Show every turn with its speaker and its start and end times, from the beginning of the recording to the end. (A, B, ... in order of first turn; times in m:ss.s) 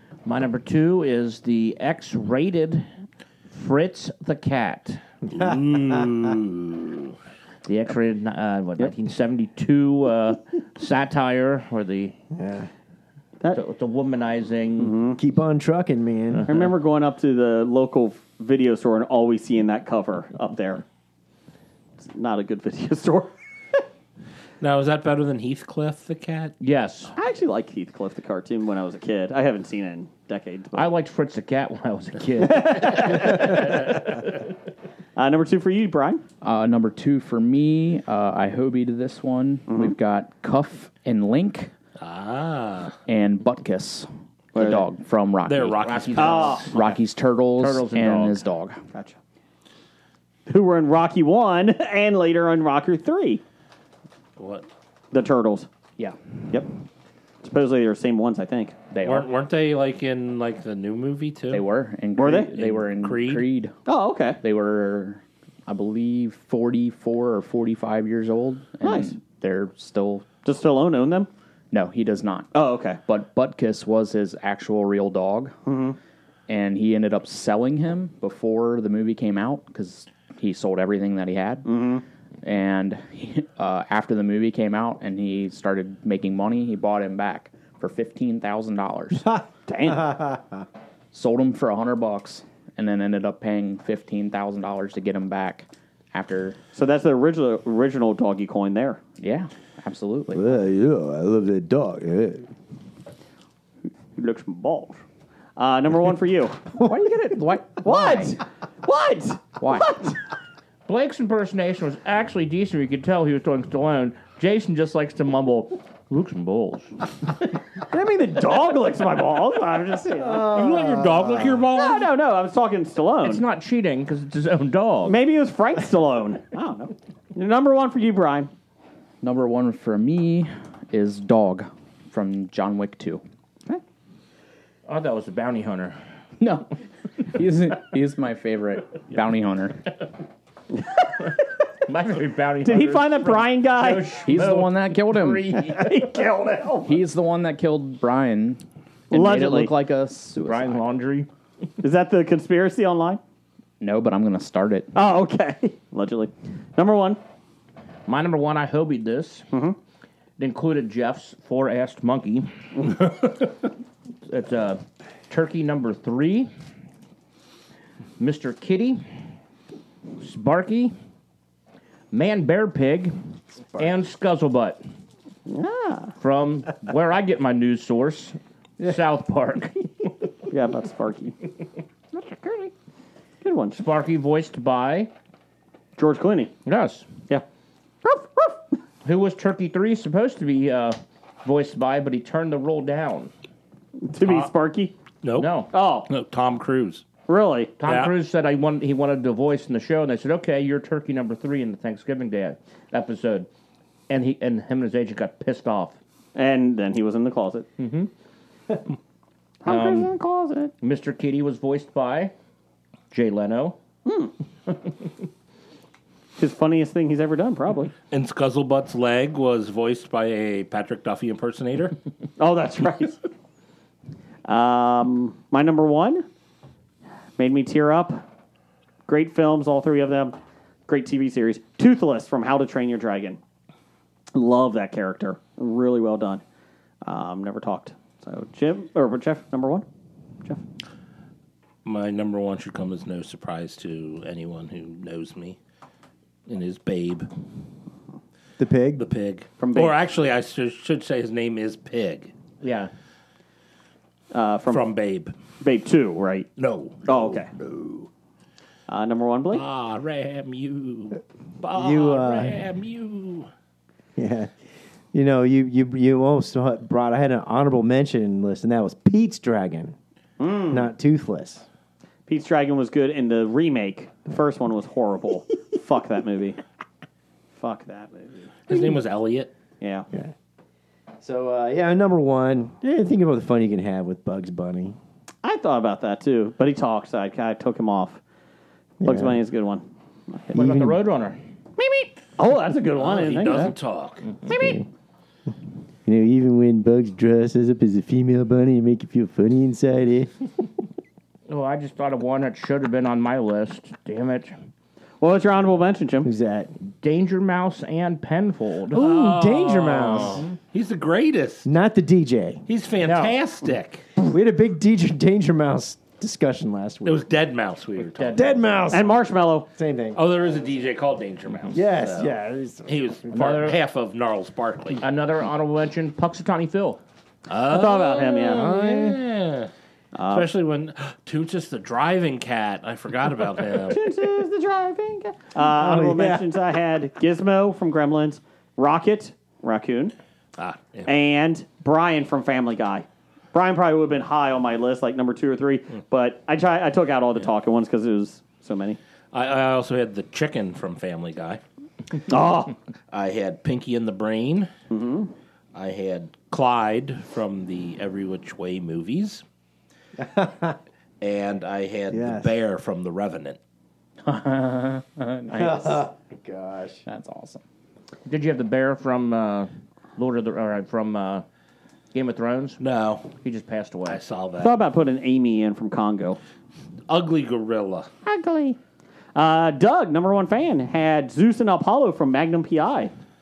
0:00.2-0:02.9 A
0:03.5-0:05.0 A
0:05.3-0:07.1 B
0:07.6-0:12.1 A
0:12.3-0:12.7 C
0:13.5-0:14.9 A
0:14.8-0:15.2 D
0:15.2-0:16.4 C
0:16.3-0:16.7 A
0:16.5-0:20.8 D
0:22.0-0:23.8 D
0:24.6-0:26.5 B
0:26.6-0:27.1 A
0:27.1-0:30.9 D
0:30.7-0:33.8 A
0:32.4-0:34.2 D
0:35.2-0:36.2 D
0:36.4-0:41.7 E
0:39.7-0:40.0 D
0:42.0-0:43.0 B
0:43.1-0:45.8 E
0:44.6-0:44.8 D
0:45.4-0:46.6 B
0:45.8-0:47.0 A
0:46.2-0:46.7 D
0:46.6-0:48.8 E
0:47.6-0:48.4 A
0:50.5-0:53.4 D
0:54.4-0:54.7 B
0:55.1-0:55.7 D
0:57.4-0:58.8 D
0:58.9-0:59.3 E
0:59.0-1:01.7 B
1:01.5-1:03.7 E
1:02.2-1:02.5 D
1:02.5-1:03.5 B
1:03.9-1:04.4 D
1:04.4-1:10.3 E
1:08.8-1:09.2 D
1:10.4-1:11.3 D
1:11.7-1:12.5 E
1:12.5-1:13.0 D
1:13.1-1:15.5 E
1:15.6-1:16.0 D
1:16.5-1:21.7 E
1:21.6-1:22.0 D
1:22.4-1:29.4 E
1:29.7-1:30.2 D
1:31.1-1:36.6 E
1:36.7-1:39.0 D
1:39.2-1:40.5 E
1:40.3-1:42.5 C
1:44.1-1:45.0 D
1:45.6-1:46.8 D
1:46.8-1:48.4 E
1:47.8-1:50.2 D
1:49.6-1:49.9 E
1:50.8-1:57.0 A
1:57.9-2:00.7 D
2:00.2-2:01.6 C
2:00.4-2:02.1 B
2:01.7-2:03.4 D
2:03.2-2:05.2 A
2:05.0-2:08.5 D
2:09.2-2:13.2 E
2:14.9-2:16.0 A
2:16.4-2:16.7 E
2:17.2-2:19.9 E
2:21.8-2:26.1 A
2:22.6-2:24.2 D
2:24.2-2:25.6 E
2:25.6-2:27.0 D
2:26.8-2:30.8 E
2:29.1-2:29.7 D
2:30.4-2:31.3 A
2:31.8-2:33.2 D
2:33.8-2:34.9 E
2:34.9-2:37.2 D
2:38.1-2:39.4 A
2:39.5-2:39.8 D
2:40.4-2:43.0 A
2:44.3-2:46.5 A
2:48.2-2:49.0 A
2:50.2-2:50.9 A
2:52.1-2:53.1 A
2:53.8-2:54.8 A
2:55.5-2:56.1 D
2:56.2-3:00.1 A
3:00.5-3:01.4 D
3:02.1-3:02.7 D
3:03.4-3:03.8 D
3:03.7-3:05.1 A
3:06.0-3:06.5 D
3:06.6-3:07.1 A
3:08.0-3:08.6 D
3:09.0-3:13.3 A
3:14.0-3:14.9 D
3:14.2-3:14.5 B
3:15.2-3:17.0 B
3:15.4-3:15.7 A
3:15.7-3:16.1 D
3:17.3-3:17.7 D
3:17.8-3:23.5 A
3:17.8-3:18.1 B
3:24.1-3:26.0 A
3:26.3-3:27.7 D
3:27.8-3:28.1 A
3:29.6-3:30.7 D
3:29.6-3:30.1 A
3:30.8-3:32.3 A
3:33.1-3:33.8 A
3:34.0-3:34.3 D
3:36.4-3:37.9 D
3:38.1-3:42.0 B
3:42.4-3:43.2 D
3:44.4-3:46.2 D
3:47.4-3:48.2 D
3:49.1-3:50.4 D
3:50.9-3:53.4 D
3:54.3-3:56.4 D
3:57.0-3:59.8 D
4:01.8-4:05.6 B
4:06.5-4:07.3 B
4:08.6-4:09.0 C
4:08.9-4:12.3 B
4:09.6-4:10.0 D
4:12.6-4:12.9 A
4:14.3-4:14.9 D
4:14.7-4:15.3 B
4:15.6-4:16.5 D
4:16.6-4:17.8 B
4:17.1-4:17.5 D
4:18.9-4:19.6 D
4:19.5-4:23.5 B
4:21.7-4:22.6 C
4:24.2-4:24.5 C
4:25.1-4:29.9 C
4:30.4-4:30.8 D
4:30.7-4:31.6 C
4:32.3-4:36.6 D
4:37.5-4:38.7 D
4:38.7-4:39.5 B
4:39.8-4:40.1 D
4:41.2-4:45.0 C
4:45.4-4:48.2 D
4:49.0-4:49.4 C
4:49.0-4:50.9 D
4:50.5-4:51.4 A
4:51.8-4:53.8 D
4:53.0-4:54.3 B
4:54.4-4:54.8 D
4:54.5-4:54.8 C
4:56.0-5:00.3 C
5:01.5-5:04.5 A
5:05.2-5:06.3 D
5:06.2-5:06.7 C
5:07.0-5:09.0 A
5:08.9-5:10.4 C
5:08.9-5:11.7 B
5:11.6-5:12.6 C
5:12.7-5:14.0 B
5:13.0-5:13.3 A
5:14.2-5:17.2 C
5:17.0-5:18.7 B
5:18.2-5:18.8 A
5:18.3-5:20.2 C
5:18.9-5:19.7 D
5:20.1-5:22.3 B
5:21.7-5:23.0 C
5:22.9-5:25.0 B
5:23.3-5:23.8 A
5:25.0-5:27.0 A
5:27.5-5:29.7 B
5:27.6-5:28.6 D
5:28.5-5:29.2 C
5:30.1-5:30.5 D
5:30.3-5:34.1 B
5:33.8-5:40.1 D
5:35.6-5:36.6 C
5:40.6-5:41.1 B
5:41.0-5:49.0 D
5:49.3-5:51.6 B
5:52.3-5:52.8 D
5:53.1-5:54.7 B
5:54.9-5:55.3 D
5:55.7-5:59.4 B
6:00.2-6:00.8 C
6:01.2-6:03.6 B
6:02.1-6:02.5 C
6:04.2-6:06.0 E
6:05.5-6:07.0 C
6:07.0-6:07.6 E
6:08.3-6:11.4 A
6:12.1-6:12.8 A
6:12.8-6:13.3 B
6:13.4-6:14.2 A
6:14.1-6:14.8 B
6:14.6-6:16.4 D
6:17.1-6:18.1 B
6:18.2-6:18.8 D
6:19.3-6:23.1 D